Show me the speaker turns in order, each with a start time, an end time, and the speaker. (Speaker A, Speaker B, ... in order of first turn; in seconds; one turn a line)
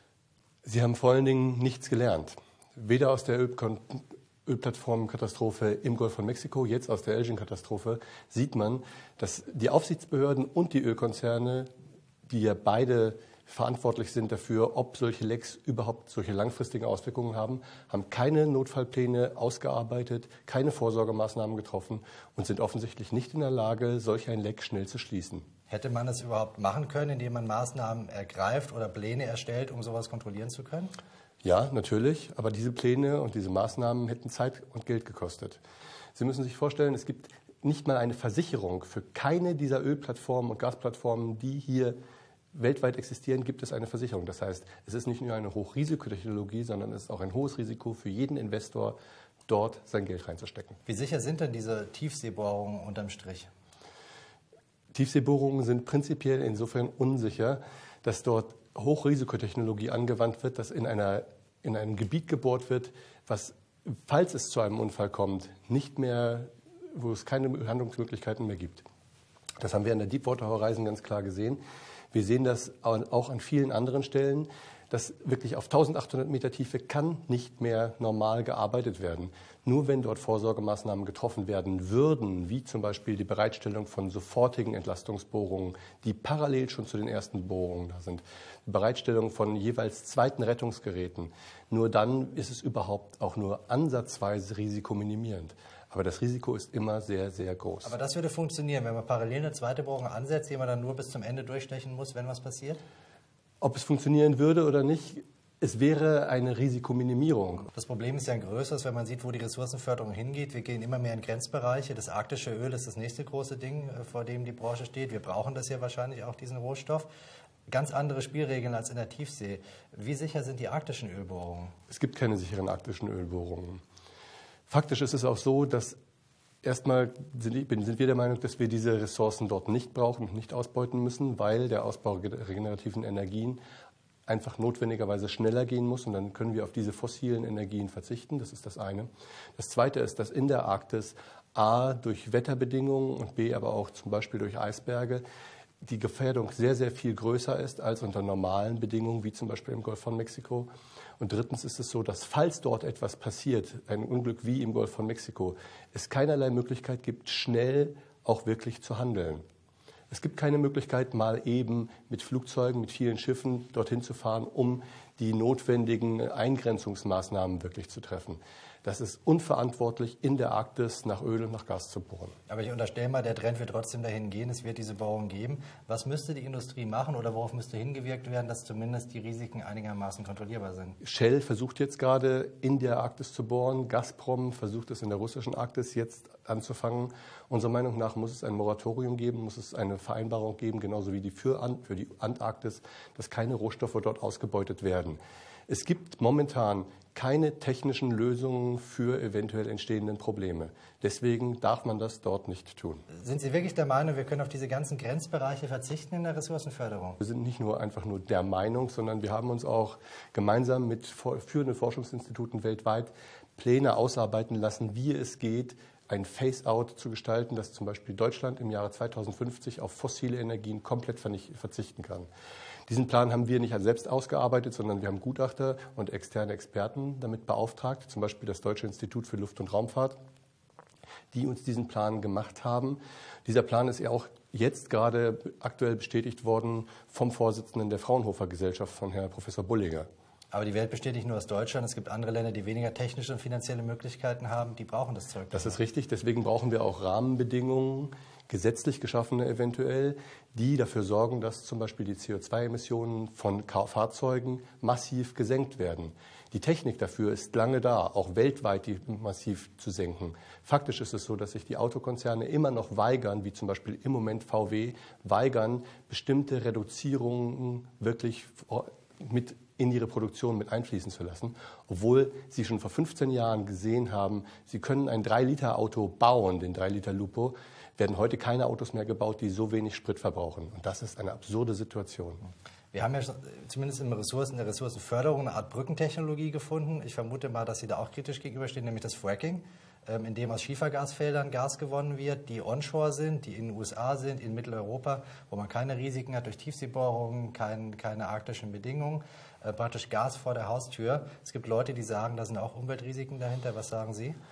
Speaker A: 0.6-11.7
Speaker A: 12.2-25.4
Speaker B: 25.7-30.9
Speaker A: 31.4-35.6
Speaker A: 36.1-42.0
Speaker A: 42.5-49.0
Speaker A: 49.5-50.8
Speaker B: 50.9-53.5
Speaker A: 54.9-68.8
Speaker A: 69.6-71.6
Speaker A: 72.1-97.9
Speaker B: 97.8-102.8
Speaker A: 103.6-107.7
Speaker B: 107.7-117.1
Speaker B: 117.7-121.8
Speaker A: 121.9-123.8
Speaker A: 124.7-126.0
Speaker A: 126.6-133.6
Speaker A: 134.3-145.2
Speaker A: 145.8-159.4
Speaker A: 160.1-172.3
Speaker B: 172.5-181.0
Speaker A: 181.0-203.0
Speaker B: 203.2-207.2
Speaker A: 207.2-222.3
Speaker A: 222.9-230.2
Speaker A: 231.3-240.1
Speaker B: 240.5-245.8
Speaker A: 245.5-282.4
Speaker B: 282.9-304.4